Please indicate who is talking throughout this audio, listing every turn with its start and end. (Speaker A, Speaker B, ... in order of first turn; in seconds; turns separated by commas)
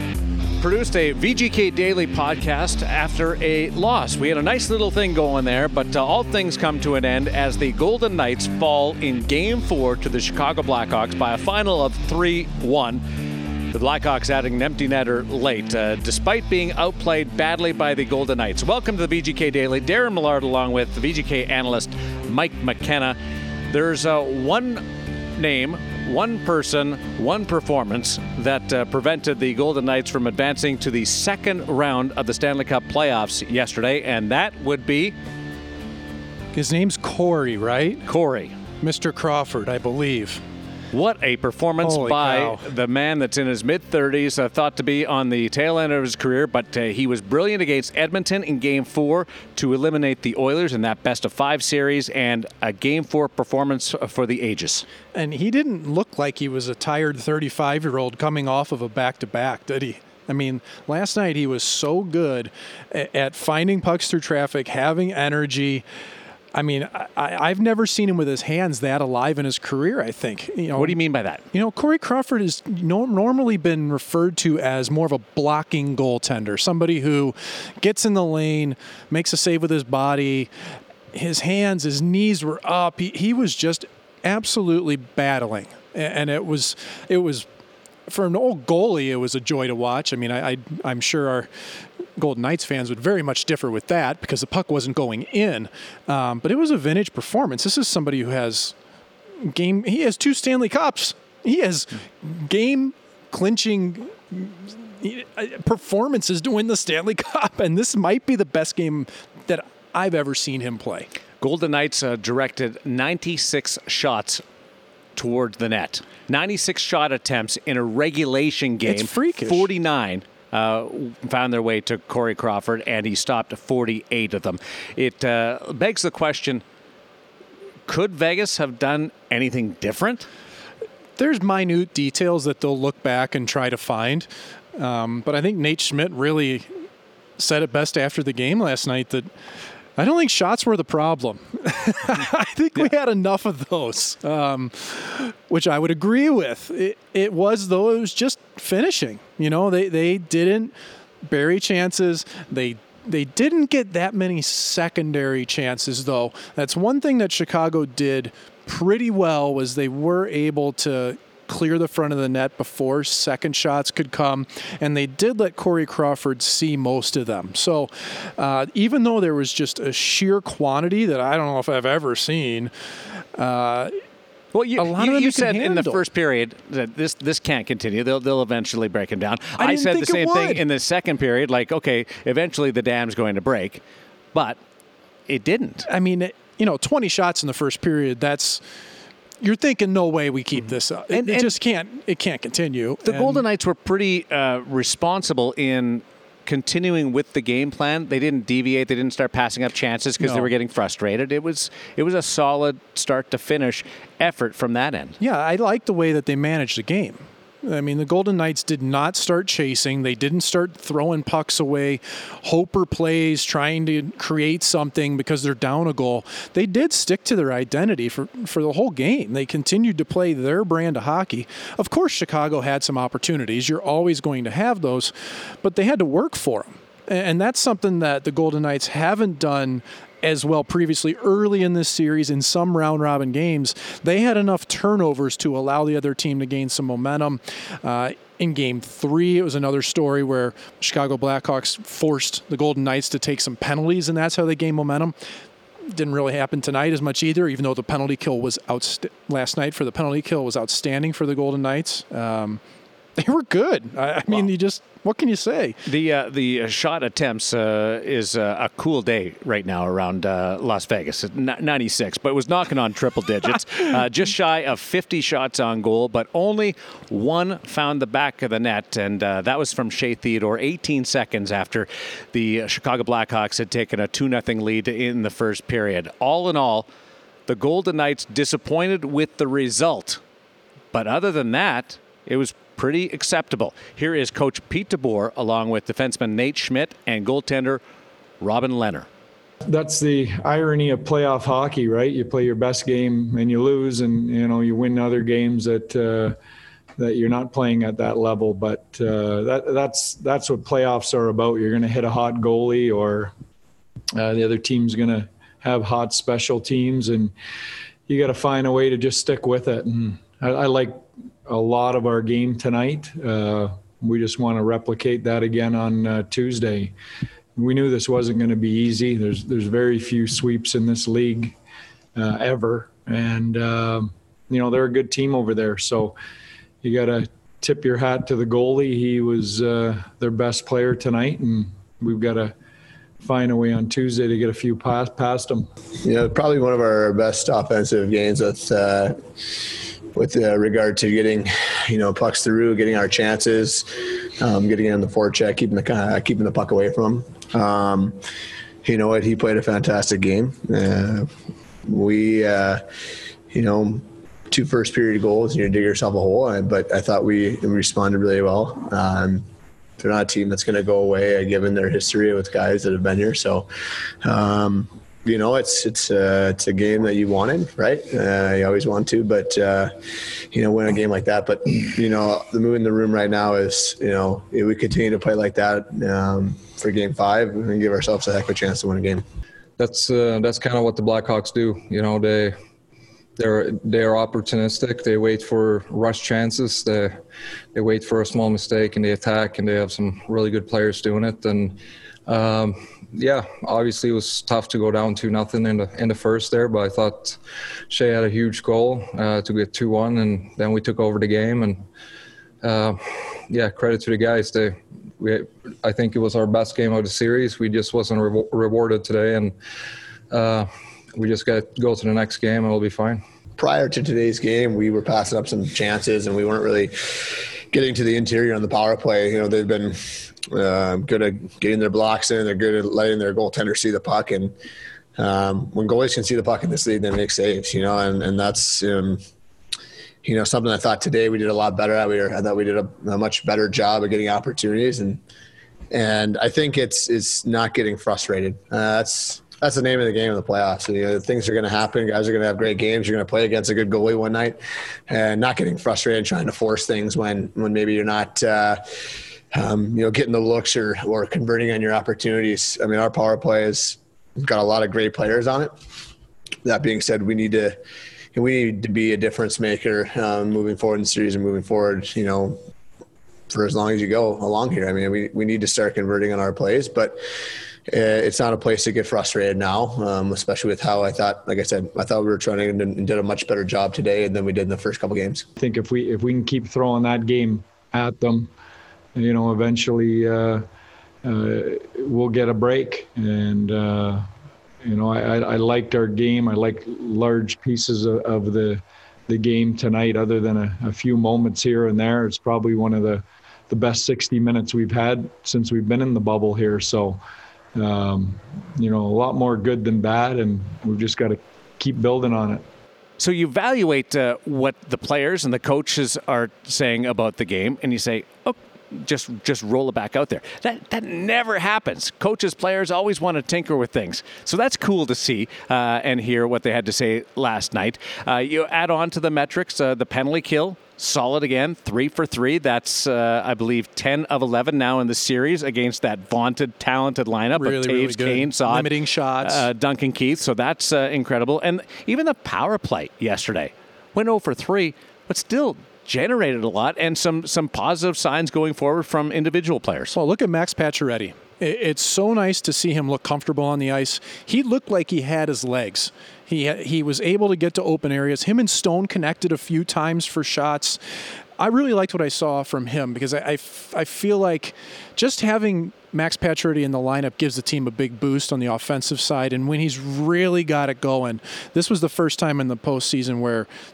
Speaker A: 0.6-13.0, Speaker A: 13.7-23.2, Speaker A: 23.7-24.8, Speaker A: 25.4-35.1, Speaker B: 36.5-38.0, Speaker A: 38.0-38.5, Speaker B: 38.8-40.4, Speaker A: 40.9-54.9, Speaker B: 41.8-42.6, Speaker B: 55.1-65.8, Speaker B: 66.5-70.9, Speaker A: 70.7-71.5, Speaker B: 71.5-80.5, Speaker B: 81.1-87.5, Speaker B: 88.1-91.5, Speaker B: 92.2-98.7, Speaker B: 99.4-111.1, Speaker A: 111.4-114.4, Speaker A: 115.2-126.6, Speaker B: 118.9-119.7, Speaker A: 127.9-130.3, Speaker B: 131.2-136.7, Speaker B: 137.4-139.3, Speaker B: 140.0-150.7, Speaker B: 151.3-172.7, Speaker B: 173.3-174.0, Speaker A: 174.5-183.8, Speaker B: 174.8-176.0, Speaker B: 179.6-180.6, Speaker A: 185.3-185.9, Speaker B: 185.9-188.6, Speaker B: 189.4-193.4, Speaker A: 191.1-191.5, Speaker A: 193.0-205.2, Speaker B: 200.2-200.5, Speaker B: 205.2-245.2, Speaker B: 245.9-252.6, Speaker B: 253.2-255.8, Speaker A: 255.8-276.9, Speaker A: 277.5-280.2, Speaker A: 280.9-287.8, Speaker A: 288.4-289.1, Speaker C: 289.6-296.4, Speaker C: 297.0-303.3, Speaker C: 304.1-307.3, Speaker C: 308.1-316.9, Speaker C: 317.6-321.5, Speaker C: 322.1-326.2, Speaker C: 326.8-332.5, Speaker C: 333.2-335.6, Speaker D: 336.0-339.2, Speaker D: 340.1-348.2, Speaker D: 348.8-351.3, Speaker D: 351.9-352.8, Speaker D: 353.5-359.4, Speaker D: 360.0-363.7, Speaker D: 364.2-369.9, Speaker D: 370.5-379.2, Speaker E: 379.8-382.5, Speaker E: 383.4-387.2, Speaker E: 387.7-397.4, Speaker E: 397.9-401.8, Speaker E: 402.6-409.5, Speaker E: 410.3-413.2, Speaker D: 413.6-424.5, Speaker D: 425.2-429.2, Speaker D: 430.2-435.2, Speaker D: 435.9-448.8, Speaker D: 449.5-455.7, Speaker D: 456.6-457.8, Speaker D: 458.3-462.6, Speaker D: 463.5-467.2, Speaker D: 467.9-475.4, Speaker C: 475.6-478.5, Speaker C: 479.1-480.6, Speaker C: 481.2-484.2, Speaker C: 484.8-497.2, Speaker C: 497.8-502.6, Speaker A: 503.2-540.2, Speaker B: 527.6-529.7, Speaker B: 540.2-550.9, Speaker B: 551.6-563.6